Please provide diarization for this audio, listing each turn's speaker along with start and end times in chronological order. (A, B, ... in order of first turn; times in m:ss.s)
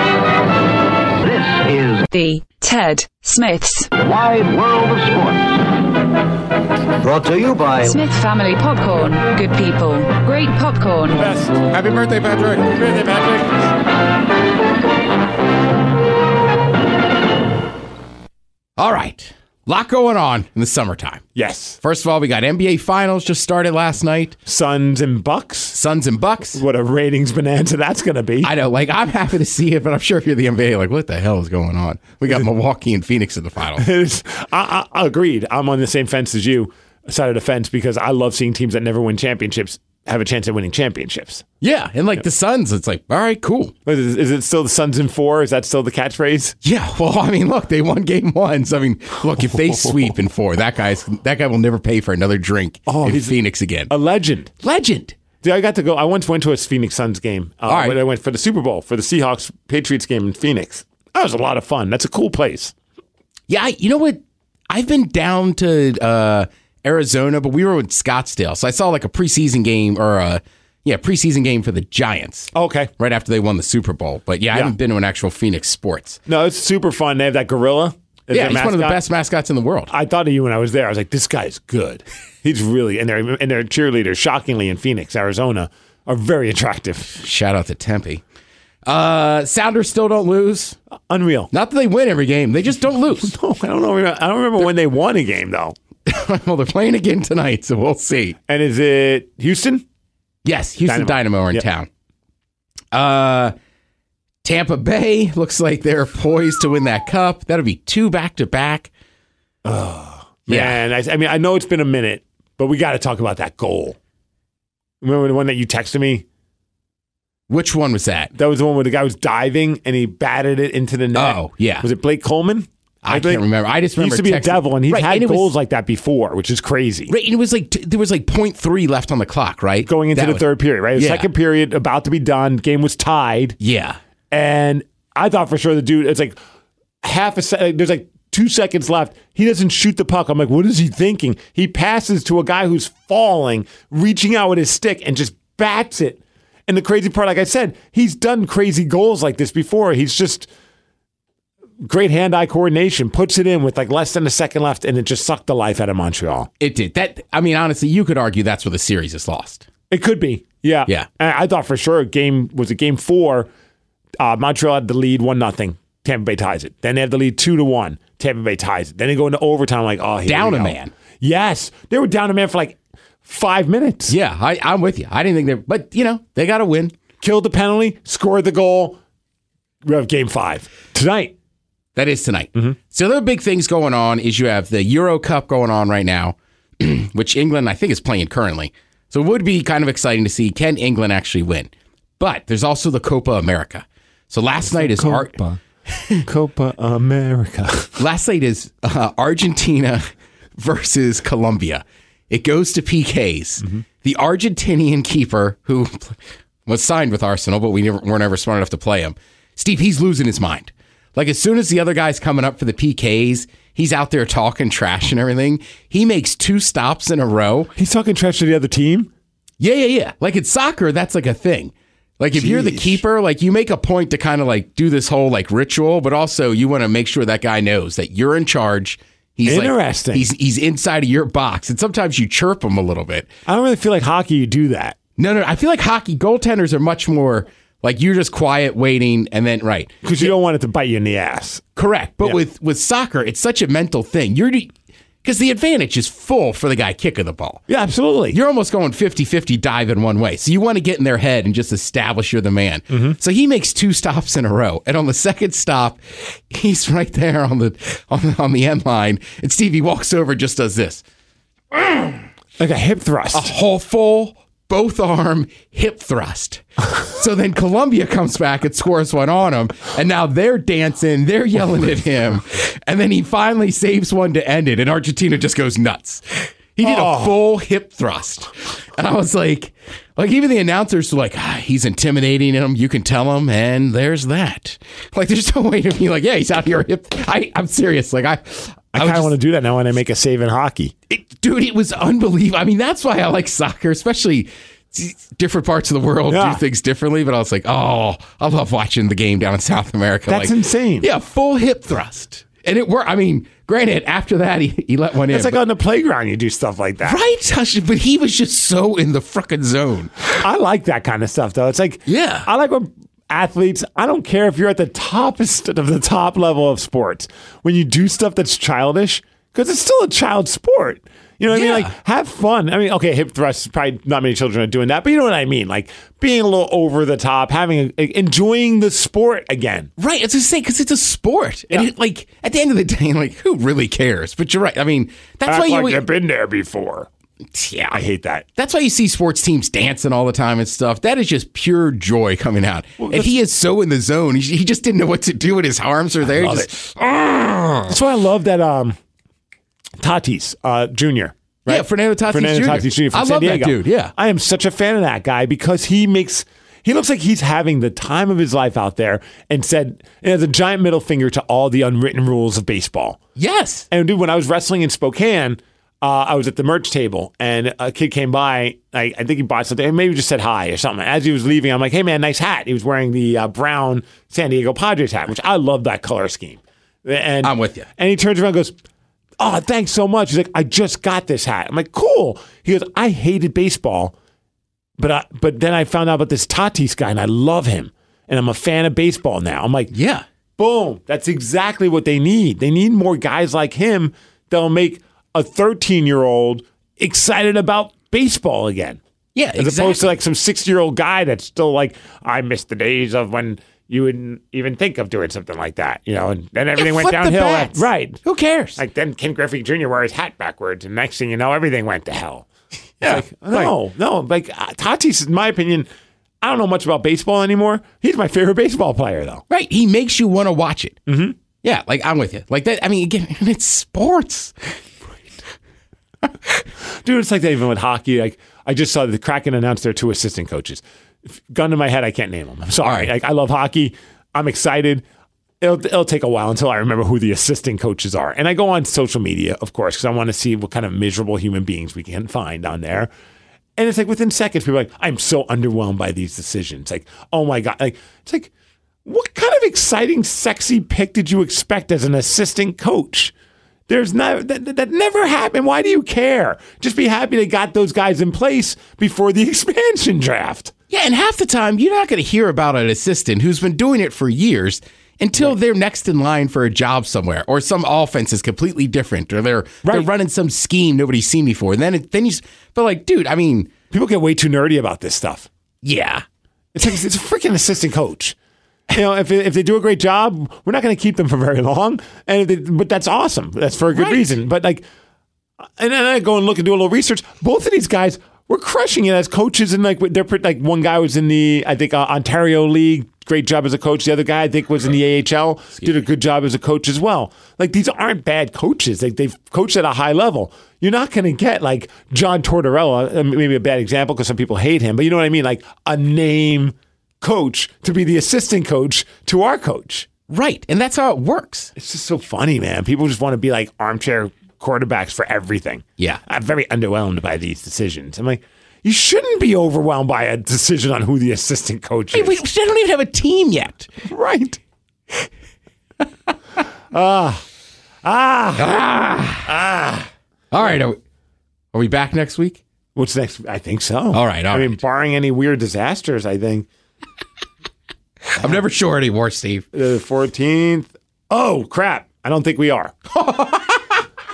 0:01.2-0:02.0 A
0:02.1-0:03.9 B
0:04.0-0:05.7 A
0:07.0-0:08.0 A
0:07.8-0:11.3 B
0:11.1-0:11.6 C
0:11.7-0:12.8 D
0:12.7-0:13.6 C
0:18.8-0:21.2 D
0:21.3-0:21.8 C
0:21.8-0:24.4 D
0:24.4-0:25.8 C
0:25.7-0:26.6 D
0:26.5-0:28.5 C
0:28.4-0:33.8 D
0:33.8-0:41.4 C
0:41.6-0:43.7 D
0:43.8-0:46.6 C
0:46.6-0:53.9 D
0:52.9-0:54.5 C
0:54.6-0:55.2 D
0:55.4-1:02.7 C
0:57.7-0:58.0 D
1:03.5-1:16.2 D
1:12.5-1:12.9 C
1:16.3-1:19.0 C
1:18.3-1:19.9 D
1:19.9-1:27.2 C
1:27.1-1:28.2 D
1:28.8-1:30.8 D
1:31.1-1:31.5 C
1:31.5-1:33.3 D
1:33.2-1:35.8 C
1:36.0-1:38.4 D
1:38.5-1:39.8 C
1:40.4-1:41.9 D
1:40.8-1:41.6 C
1:42.9-1:43.5 D
1:44.4-1:48.9 D
1:49.6-1:54.0 C
1:50.5-1:50.8 D
1:55.0-1:56.2 C
1:57.5-1:58.3 D
1:58.3-2:03.4 C
2:01.1-2:01.9 D
2:03.0-2:05.5 D
2:04.0-2:07.1 C
2:07.1-2:11.3 D
2:09.8-2:13.6 C
2:13.6-2:14.0 D
2:14.3-2:16.4 C
2:17.0-2:30.5 C
2:31.8-2:36.5 C
2:36.6-2:39.6 D
2:39.9-2:43.5 C
2:44.2-2:54.1 C
2:50.2-2:50.9 D
2:54.1-2:56.9 D
2:57.2-2:59.0 C
2:59.8-3:01.3 C
3:02.0-3:15.3 D
3:14.6-3:15.6 C
3:15.9-3:16.2 D
3:16.2-3:18.0 C
3:18.0-3:20.0 D
3:20.6-3:37.7 D
3:37.8-3:39.1 C
3:39.6-3:53.3 D
3:42.3-3:43.0 C
3:49.4-3:50.3 C
3:53.5-3:55.0 C
3:55.2-4:00.3 D
4:00.0-4:01.6 C
4:01.8-4:04.7 D
4:05.2-4:07.6 D
4:07.7-4:08.4 C
4:08.3-4:21.0 D
4:12.9-4:13.2 C
4:21.7-4:22.2 D
4:22.6-4:23.5 C
4:23.3-4:49.3 D
4:36.8-4:37.4 C
4:48.9-4:50.9 C
4:51.1-5:05.6 D
4:56.3-4:56.6 C
5:00.3-5:01.1 C
5:05.3-5:07.2 C
5:07.0-5:10.3 D
5:10.3-5:29.9 C
5:12.0-5:12.5 D
5:21.5-5:21.9 D
5:30.0-5:36.0 D
5:35.4-5:37.1 C
5:37.5-5:38.0 D
5:37.9-5:38.4 C
5:38.5-5:48.0 D
5:43.0-5:43.3 C
5:46.2-5:46.7 C
5:47.9-5:49.0 C
5:50.0-6:03.2 C
5:51.7-5:54.1 D
6:03.4-6:03.9 D
6:03.9-6:18.7 C
6:17.4-6:17.9 D
6:19.4-6:24.1 C
6:25.0-6:29.9 C
6:29.9-6:30.2 D
6:30.6-6:39.0 C
6:39.3-6:40.1 D
6:39.6-6:48.2 C
6:46.8-6:48.8 D
6:48.8-6:52.4 C
6:53.0-6:53.7 D
6:53.0-6:55.9 C
6:56.4-6:59.4 C
6:59.5-7:01.0 D
7:01.1-7:01.3 C
7:01.6-7:04.8 D
7:07.0-7:15.0 C
7:12.8-7:13.1 D
7:15.6-7:23.1 C
7:23.8-7:28.5 C
7:29.0-7:33.3 C
7:33.9-7:40.7 C
7:40.9-7:53.7 D
7:49.8-7:50.1 C
7:53.9-7:55.5 C
7:55.8-7:56.2 D
7:56.7-7:58.3 C
7:58.9-8:04.8 C
8:03.9-8:04.2 D
8:05.8-8:30.1 C
8:30.3-8:31.7 D
8:31.7-8:42.4 C
8:42.1-8:43.9 D
8:44.0-8:44.6 C
8:46.9-8:47.4 C
8:48.0-8:48.8 C
8:48.6-8:49.5 D
8:49.4-8:50.1 C
8:50.5-8:51.0 D
8:51.7-8:52.6 D
8:52.9-8:56.7 C
8:54.1-8:54.8 D
8:58.4-8:59.6 D
8:59.7-9:02.9 C
9:03.1-9:04.0 D